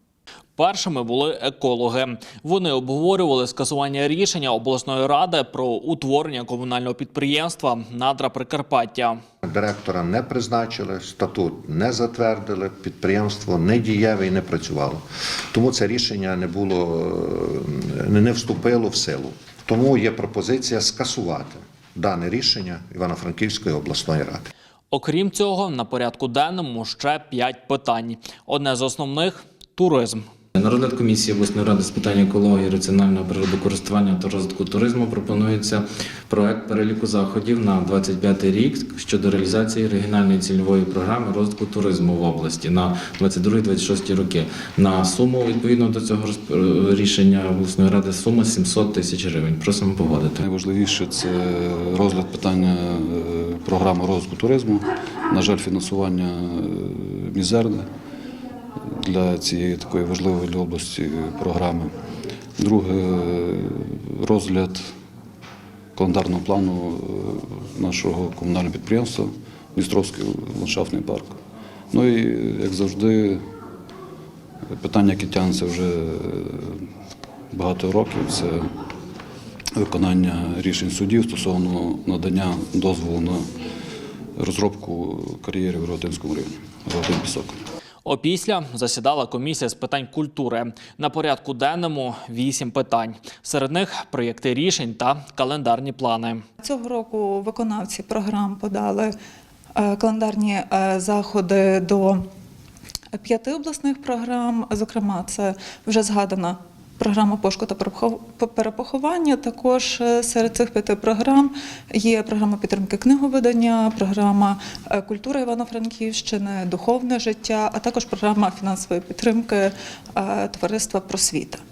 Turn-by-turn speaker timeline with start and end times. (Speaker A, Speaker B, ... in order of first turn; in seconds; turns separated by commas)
Speaker A: 0.6-9.2, Speaker B: 9.4-24.5, Speaker A: 24.9-30.2, Speaker C: 30.5-50.4, Speaker D: 50.4-57.9, Speaker D: 58.8-61.9, Speaker D: 62.6-64.9, Speaker D: 66.0-71.4, Speaker D: 71.9-73.4, Speaker D: 74.7-76.9, Speaker D: 77.5-78.7, Speaker D: 79.7-83.5, Speaker D: 84.4-87.6, Speaker A: 88.0-96.4, Speaker E: 96.6-99.1, Speaker E: 99.8-102.2, Speaker E: 103.1-121.6